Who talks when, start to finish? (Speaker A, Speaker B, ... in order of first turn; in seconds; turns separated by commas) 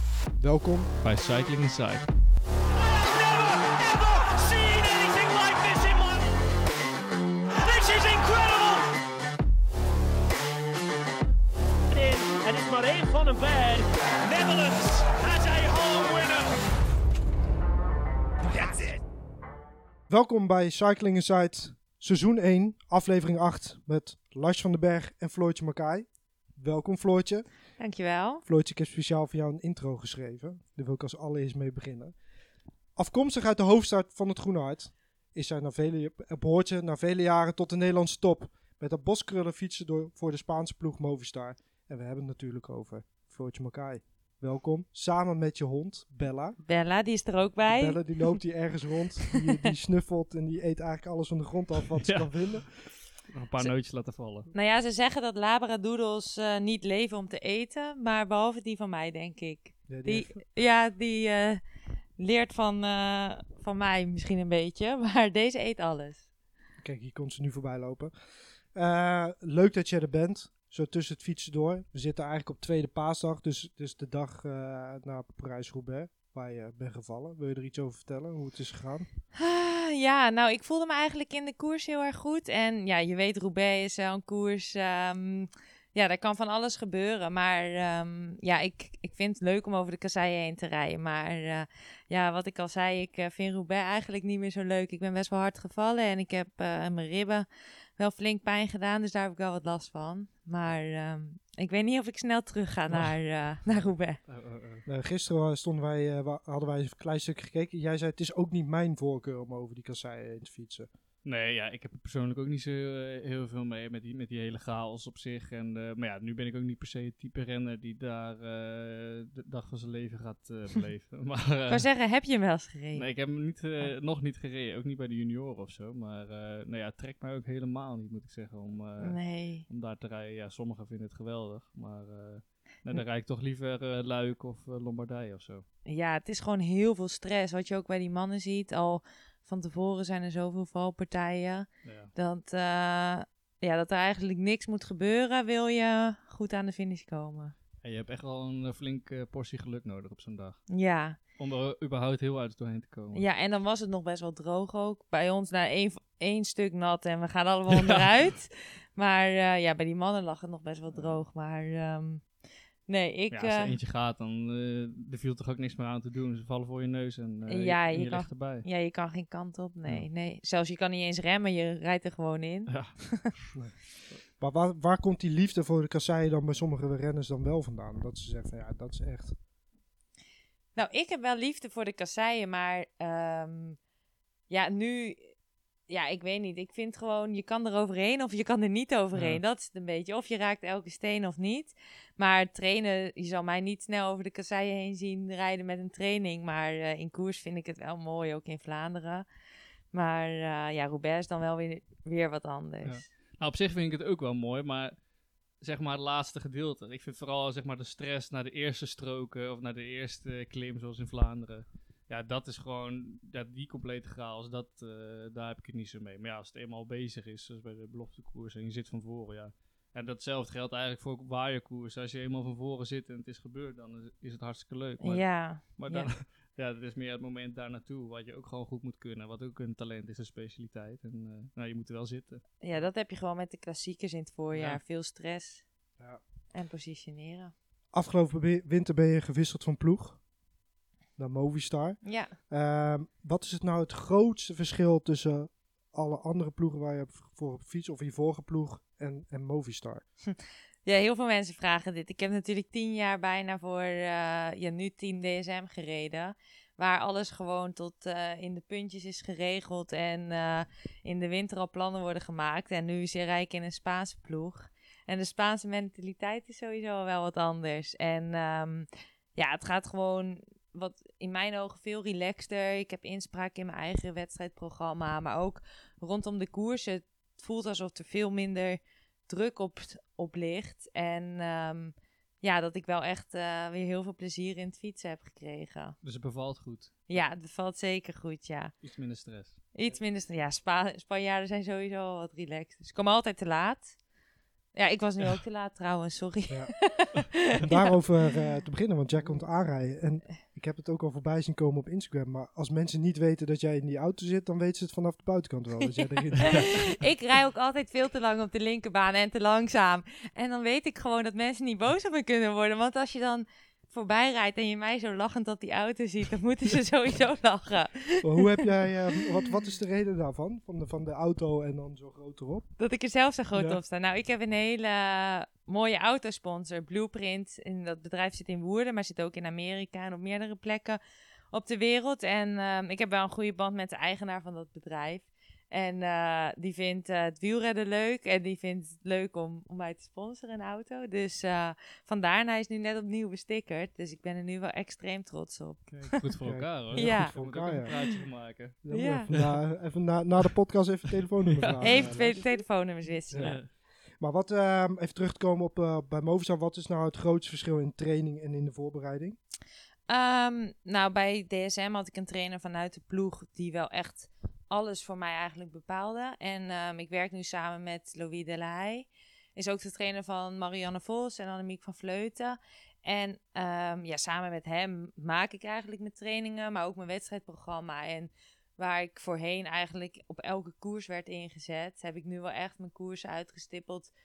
Speaker A: 0.4-0.9, Speaker B: 1.0-2.1, Speaker C: 2.8-6.3, Speaker C: 7.5-8.8, Speaker C: 11.9-16.6, Speaker C: 18.4-19.0, Speaker A: 20.1-27.4, Speaker D: 27.8-28.4, Speaker A: 28.4-32.1, Speaker A: 33.0-46.6, Speaker D: 46.6-48.4, Speaker A: 47.7-52.7, Speaker B: 52.0-54.5, Speaker D: 54.5-61.6, Speaker A: 59.9-60.4, Speaker D: 62.2-66.3, Speaker A: 66.8-68.1, Speaker A: 68.7-79.1, Speaker D: 79.3-97.5, Speaker D: 98.0-104.2, Speaker B: 102.9-103.1, Speaker B: 103.7-104.8, Speaker A: 104.8-110.9, Speaker B: 111.2-121.9, Speaker D: 121.7-123.1, Speaker B: 122.9-135.6, Speaker D: 129.0-129.6, Speaker D: 135.8-147.5, Speaker B: 141.8-142.1, Speaker B: 147.8-150.7, Speaker D: 150.7-151.2, Speaker B: 151.3-153.2, Speaker D: 153.1-163.8, Speaker B: 157.7-158.0, Speaker B: 160.9-161.2, Speaker B: 163.3-168.7, Speaker D: 167.5-173.3, Speaker B: 172.7-173.5, Speaker A: 174.3-179.4, Speaker D: 180.8-183.8, Speaker D: 184.5-185.3, Speaker D: 185.9-199.2, Speaker B: 189.1-189.4, Speaker D: 199.9-203.0, Speaker B: 202.8-205.0, Speaker B: 205.6-232.8, Speaker D: 225.0-226.1, Speaker D: 232.6-235.6, Speaker B: 234.5-234.8, Speaker D: 236.5-237.5, Speaker A: 237.9-240.2, Speaker A: 241.2-250.0, Speaker D: 242.0-242.3, Speaker D: 250.8-286.0, Speaker B: 286.0-287.0, Speaker D: 287.1-288.7, Speaker B: 288.8-289.7, Speaker D: 289.7-293.9, Speaker D: 294.7-298.0, Speaker A: 297.4-306.9, Speaker D: 306.0-318.6, Speaker A: 318.2-322.7, Speaker D: 322.8-331.0, Speaker A: 323.5-323.8, Speaker D: 331.5-346.3, Speaker B: 345.9-349.5, Speaker A: 346.4-352.4, Speaker D: 346.9-348.0, Speaker D: 348.9-349.3, Speaker B: 351.5-352.2, Speaker D: 351.8-353.6, Speaker B: 353.3-353.7, Speaker A: 353.3-353.7, Speaker A: 354.2-359.4, Speaker D: 360.1-384.1